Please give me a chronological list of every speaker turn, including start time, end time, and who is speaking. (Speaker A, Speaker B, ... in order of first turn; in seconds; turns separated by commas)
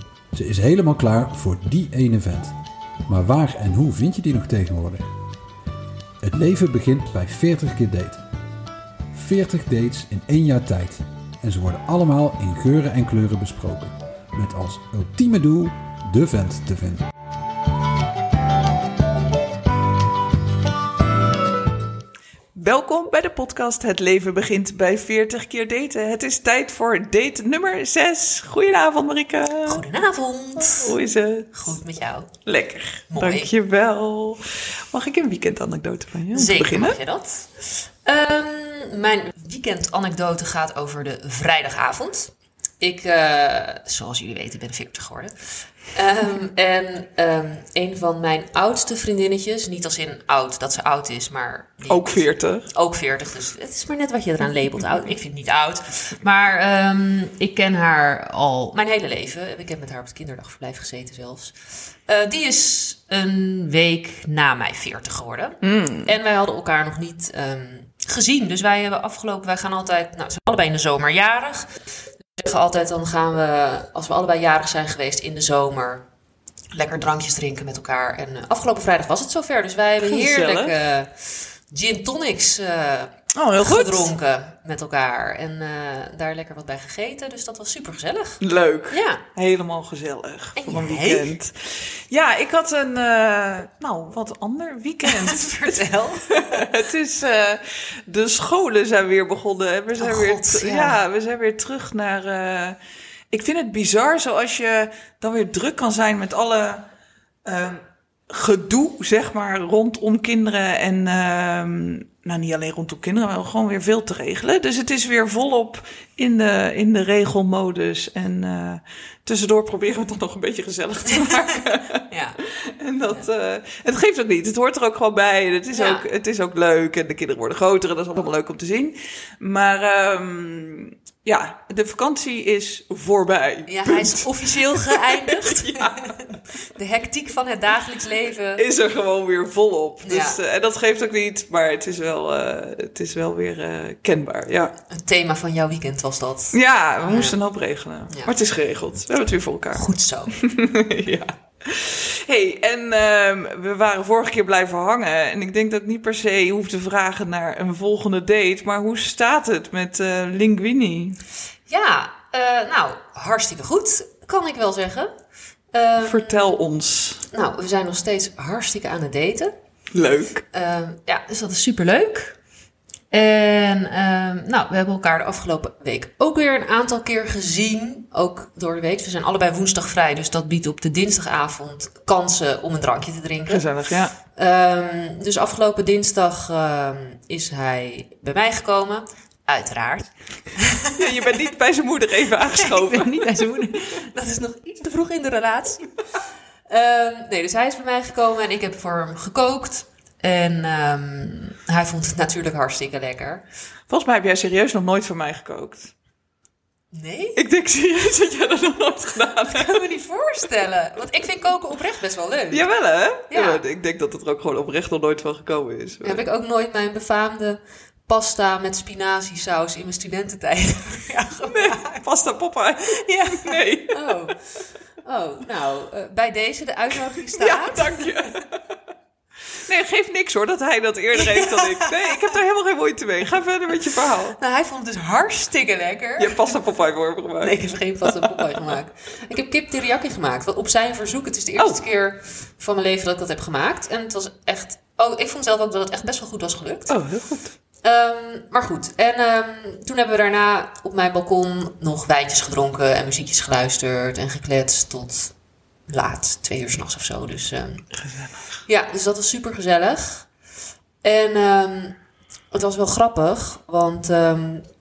Speaker A: 0.3-2.5, Speaker A: 3.1-5.0, Speaker A: 6.2-8.2, Speaker A: 9.1-17.0, Speaker B: 22.5-29.8, Speaker C: 29.6-30.9, Speaker B: 30.6-31.8, Speaker C: 31.5-32.3, Speaker B: 32.4-34.4, Speaker C: 33.1-33.5, Speaker B: 34.9-37.0, Speaker C: 36.3-45.3, Speaker C: 45.9-61.5, Speaker B: 51.9-52.7, Speaker C: 62.1-71.7, Speaker B: 65.6-66.1, Speaker C: 72.4-76.1, Speaker C: 76.7-89.2, Speaker B: 80.0-80.7, Speaker B: 83.3-84.1, Speaker B: 88.4-95.6, Speaker C: 90.6-91.3, Speaker C: 95.0-96.6, Speaker B: 96.3-102.8, Speaker C: 100.0-101.0, Speaker B: 103.3-106.8, Speaker B: 107.5-122.0, Speaker C: 122.1-122.4, Speaker B: 122.8-136.2, Speaker C: 125.7-126.0, Speaker C: 133.7-138.6, Speaker B: 138.6-144.7, Speaker C: 140.0-140.4, Speaker C: 144.9-147.4, Speaker B: 146.5-149.8, Speaker C: 149.7-150.4, Speaker B: 150.4-161.2, Speaker C: 161.7-165.1, Speaker C: 165.7-166.6, Speaker B: 166.0-167.2, Speaker C: 167.3-169.5, Speaker B: 169.9-170.4, Speaker C: 170.5-172.4, Speaker C: 173.1-183.7, Speaker B: 183.5-184.1, Speaker C: 184.3-191.1, Speaker B: 191.0-193.3, Speaker C: 192.5-196.0, Speaker C: 196.7-203.4, Speaker B: 203.9-205.9, Speaker C: 206.9-207.4, Speaker B: 207.3-209.8, Speaker C: 209.4-212.7, Speaker B: 212.5-216.2, Speaker C: 213.3-213.6, Speaker C: 216.0-222.0, Speaker B: 221.5-224.1, Speaker C: 222.9-228.3, Speaker B: 227.3-228.6, Speaker B: 229.6-234.4, Speaker C: 231.1-232.3, Speaker C: 234.3-236.5, Speaker B: 236.2-238.7, Speaker C: 237.4-246.9, Speaker B: 241.6-241.8, Speaker B: 246.9-247.5, Speaker C: 247.8-255.3, Speaker C: 255.9-257.9, Speaker B: 258.0-258.4, Speaker C: 258.7-260.3, Speaker C: 261.0-262.0, Speaker C: 262.5-264.6